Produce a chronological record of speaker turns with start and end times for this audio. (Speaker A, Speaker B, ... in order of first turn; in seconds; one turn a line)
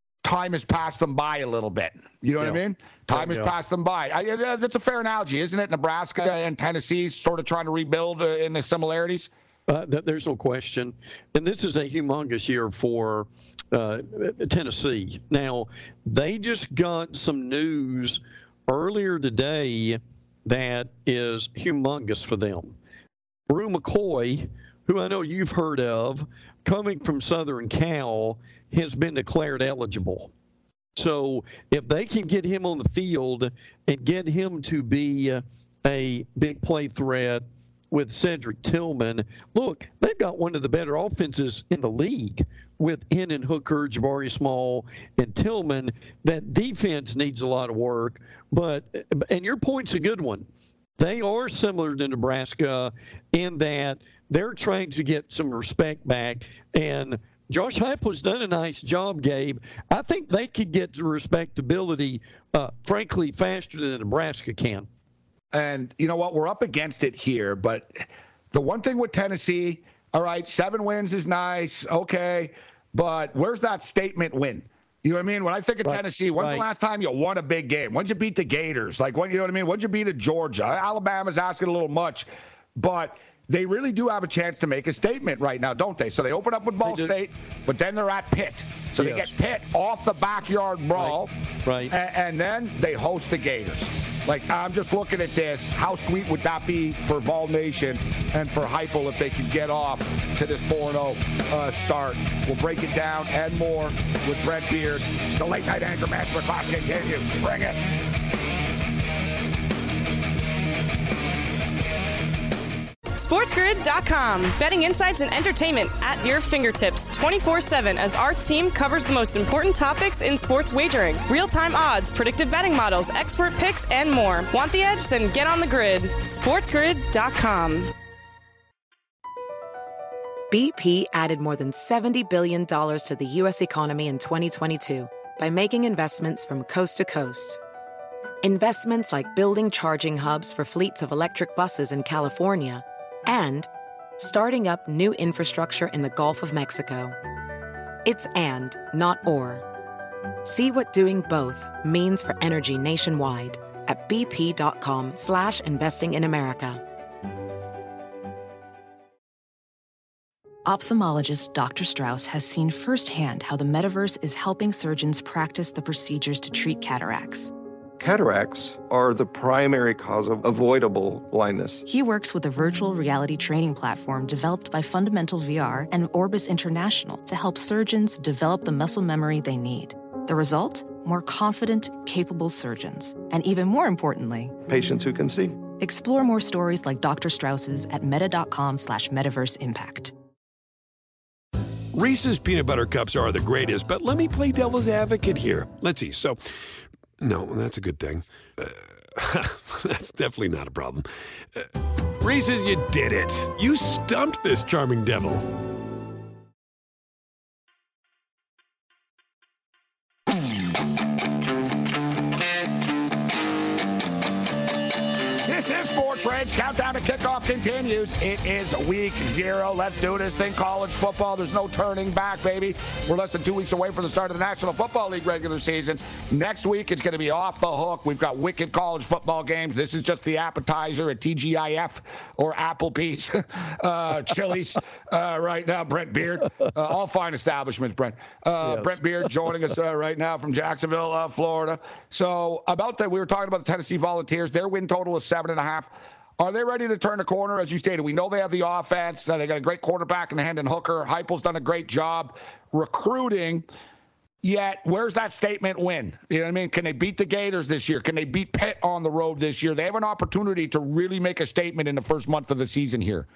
Speaker A: 0.2-9.3
Speaker B: 3.1-3.5
Speaker B: 9.7-22.8
Speaker B: 23.5-30.3
Speaker B: 31.0-50.5
Speaker B: 51.0-64.9
Speaker A: 65.5-91.3
Speaker B: 75.8-76.7
Speaker B: 86.8-87.1
Speaker B: 89.0-89.3
Speaker B: 91.0-91.9
Speaker A: 91.9-107.8
Speaker C: 113.2-127.9
Speaker D: 130.5-137.6
Speaker D: 138.4-143.7
Speaker D: 144.2-147.2
Speaker D: 148.1-149.7
Speaker D: 150.4-156.8
Speaker E: 160.7-167.5
Speaker F: 168.0-171.8
Speaker E: 171.9-184.6
Speaker F: 184.7-185.6
Speaker E: 185.8-190.1
Speaker G: 191.9-196.4
Speaker G: 197.2-201.7
Speaker G: 202.2-205.5
Speaker A: 215.4-253.7
Speaker B: 238.6-239.0
Speaker A: 254.4-263.3